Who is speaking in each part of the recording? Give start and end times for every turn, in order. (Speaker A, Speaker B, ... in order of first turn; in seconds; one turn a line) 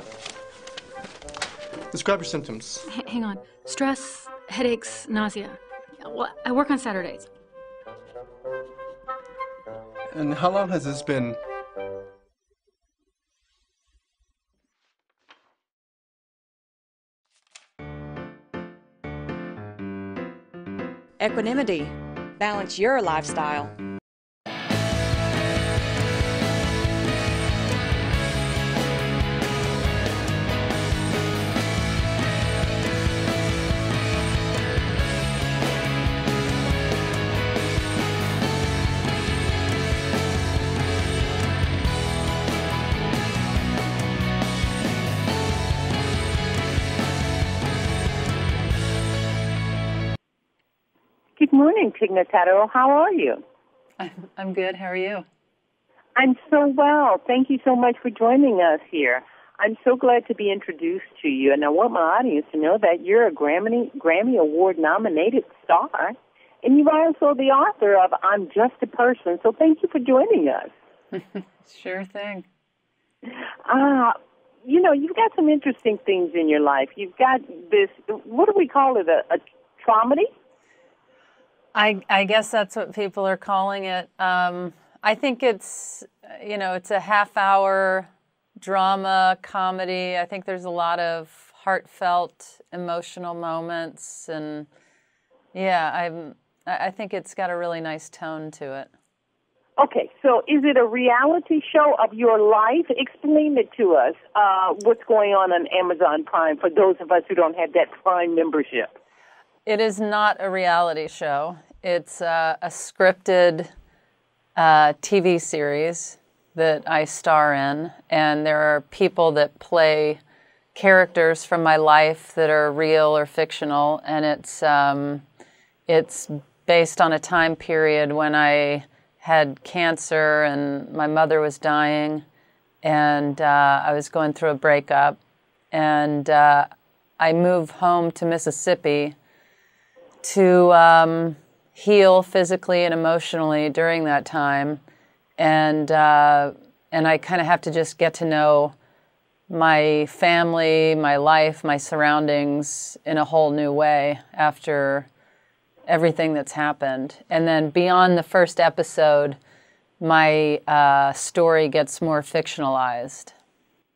Speaker A: 1.9-2.9
Speaker B: 2.9-7.3
Speaker A: 10.1-11.4
Speaker C: 21.2-23.7
Speaker D: 51.4-53.4
Speaker E: 54.0-55.2
Speaker D: 56.1-70.7
Speaker E: 71.1-72.5
Speaker D: 73.7-80.3
Speaker E: 81.7-88.1
Speaker E: 88.6-94.7
Speaker E: 95.5-98.9
Speaker D: 99.8-108.9
Speaker E: 109.7-113.7
Speaker E: 114.5-120.2
Speaker E: 120.7-125.2
Speaker E: 125.9-132.2
Speaker E: 132.8-135.2
Speaker E: 135.7-136.7
Speaker E: 137.2-139.1
Speaker E: 140.2-144.8
Speaker E: 145.4-148.7
Speaker E: 149.5-155.1
Speaker E: 155.9-159.4
Speaker E: 160.0-163.3